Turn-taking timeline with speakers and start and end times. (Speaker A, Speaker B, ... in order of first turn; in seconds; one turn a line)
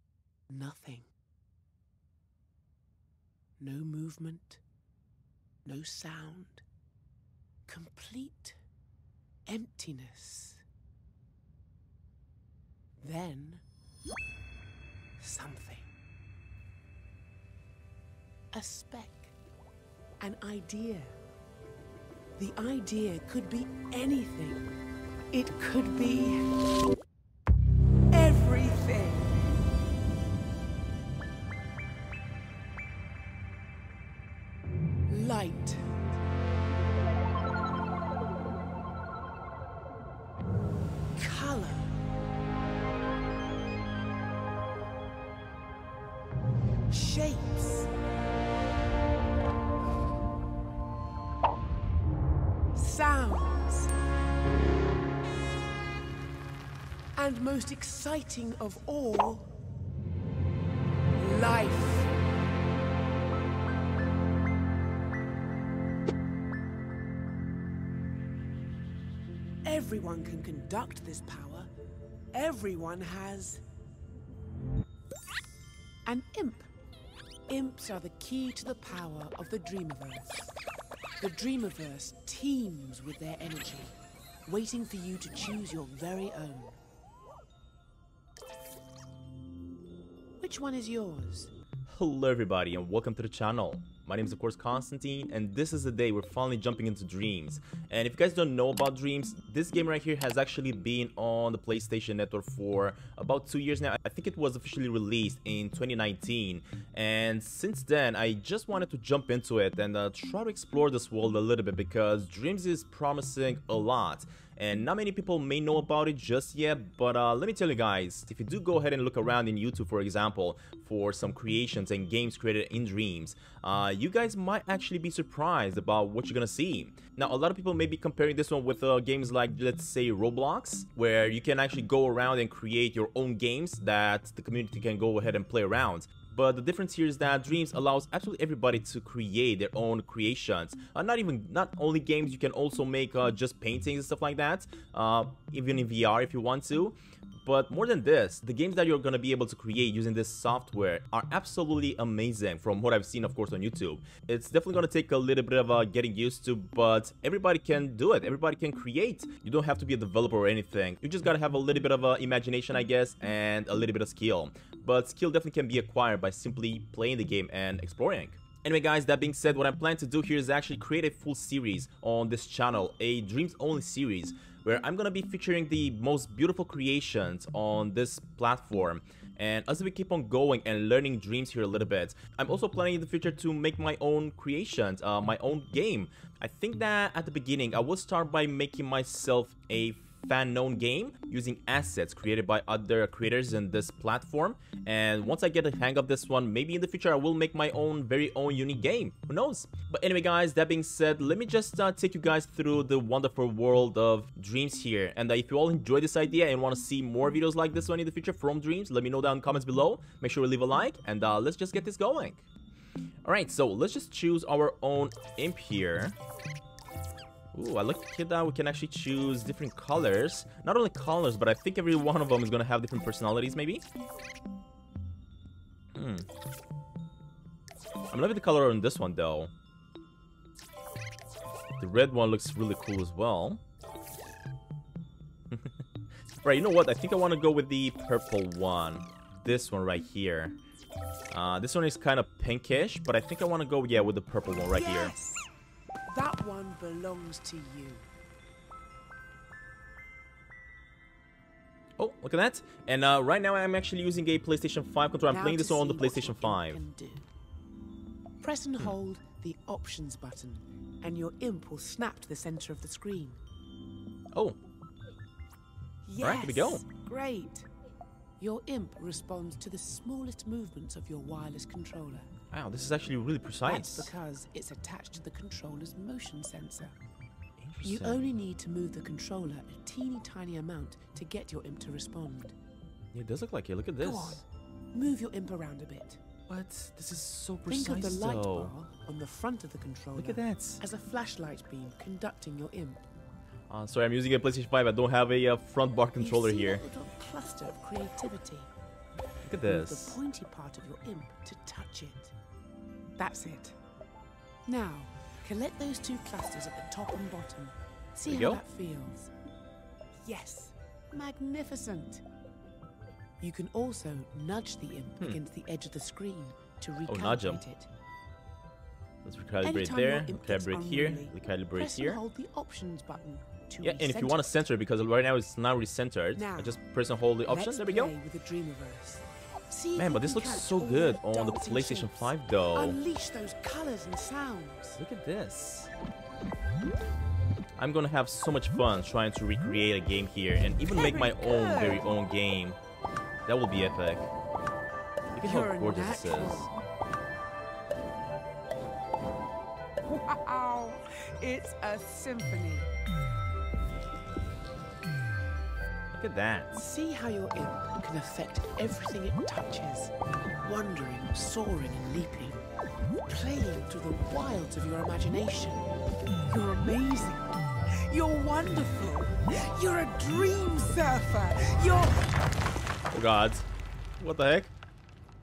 Speaker A: 0.5-1.1
Speaker A: 3.6-4.6
Speaker A: 5.6-6.6
Speaker A: 7.7-8.6
Speaker A: 9.5-10.6
Speaker A: 13.0-13.6
Speaker A: 15.2-15.9
Speaker A: 18.5-19.3
Speaker A: 20.2-21.2
Speaker A: 22.4-24.6
Speaker A: 25.3-26.5
Speaker A: 28.1-29.4
Speaker A: 35.1-36.0
Speaker A: 41.1-42.0
Speaker A: 46.9-47.9
Speaker A: 52.7-53.9
Speaker A: 57.1-59.5
Speaker A: 61.1-62.1
Speaker A: 69.6-71.7
Speaker A: 72.3-73.6
Speaker A: 76.0-76.7
Speaker A: 77.5-80.4
Speaker A: 81.2-86.8
Speaker A: 90.4-91.5
Speaker B: 91.9-212.4
Speaker B: 213.2-216.2
Speaker B: 217.5-223.8
Speaker B: 225.9-226.3
Speaker B: 228.1-229.5
Speaker B: 231.8-233.6
Speaker B: 235.5-235.8
Speaker B: 236.4-240.6
Speaker B: 241.3-245.1
Speaker A: 244.7-245.5
Speaker A: 246.1-248.1
Speaker B: 252.0-256.8
Speaker A: 255.3-257.3
Speaker A: 258.4-263.4
Speaker A: 266.0-267.7
Speaker B: 266.2-266.8
Speaker A: 268.4-272.3
Speaker B: 272.5-274.1
Speaker A: 273.7-276.9
Speaker B: 277.6-278.2
Speaker A: 277.8-282.5
Speaker B: 283.1-284.4
Speaker A: 284.0-286.2
Speaker B: 286.5-288.7
Speaker A: 287.7-293.0
Speaker B: 290.1-290.8
Speaker B: 293.7-296.8
Speaker A: 296.2-298.7
Speaker B: 299.4-300.2
Speaker A: 299.6-302.3
Speaker A: 303.2-303.8
Speaker A: 304.6-309.3
Speaker B: 308.3-308.6
Speaker A: 310.2-312.2
Speaker A: 313.4-317.9
Speaker B: 317.1-317.6
Speaker B: 319.2-322.2
Speaker A: 319.6-324.4
Speaker B: 323.8-328.1
Speaker A: 326.4-326.8
Speaker A: 327.5-335.0
Speaker B: 329.9-333.0
Speaker B: 335.0-335.9
Speaker B: 337.8-342.8
Speaker A: 340.8-342.1
Speaker B: 343.5-344.3
Speaker B: 345.3-346.7
Speaker A: 345.4-346.7
Speaker A: 350.1-352.9
Speaker B: 356.1-356.9
Speaker A: 356.8-362.6
Speaker A: 363.3-365.9
Speaker A: 366.5-367.5
Speaker A: 368.1-372.3
Speaker B: 373.1-373.6
Speaker B: 374.2-374.7